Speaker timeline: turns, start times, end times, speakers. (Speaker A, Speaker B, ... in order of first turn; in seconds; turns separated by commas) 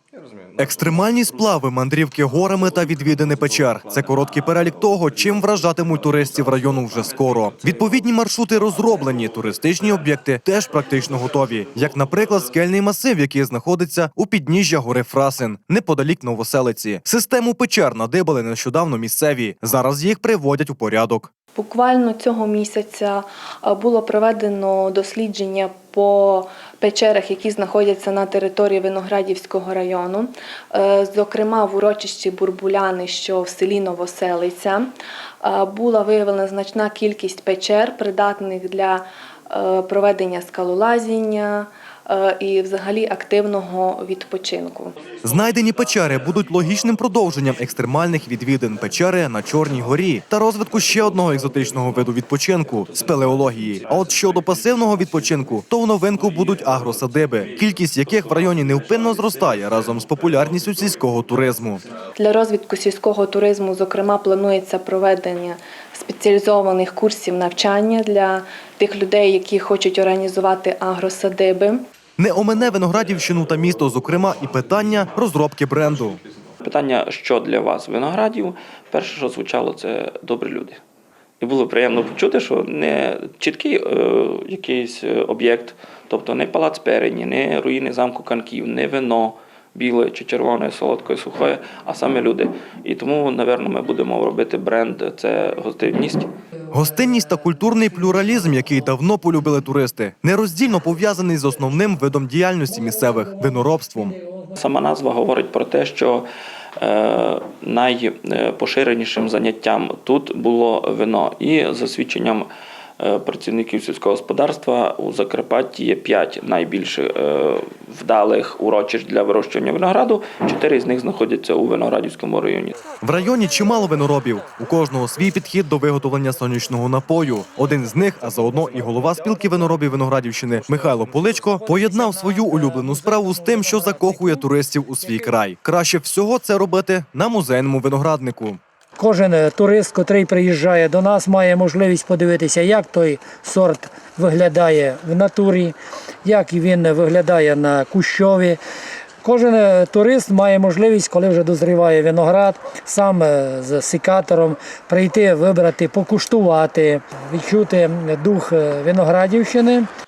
Speaker A: 0.6-21.3, Speaker B: 21.6-34.9, Speaker B: 35.4-45.0, Speaker A: 45.2-61.8, Speaker B: 62.2-71.8, Speaker A: 72.2-76.2, Speaker C: 76.6-80.8, Speaker C: 81.4-96.3, Speaker D: 96.7-98.8, Speaker A: 96.7-104.2, Speaker D: 102.7-104.6, Speaker C: 104.6-106.3, Speaker C: 106.8-112.5, Speaker C: 113.0-122.8, Speaker A: 123.0-138.6, Speaker D: 131.8-134.3, Speaker D: 139.0-148.6, Speaker D: 149.2-159.9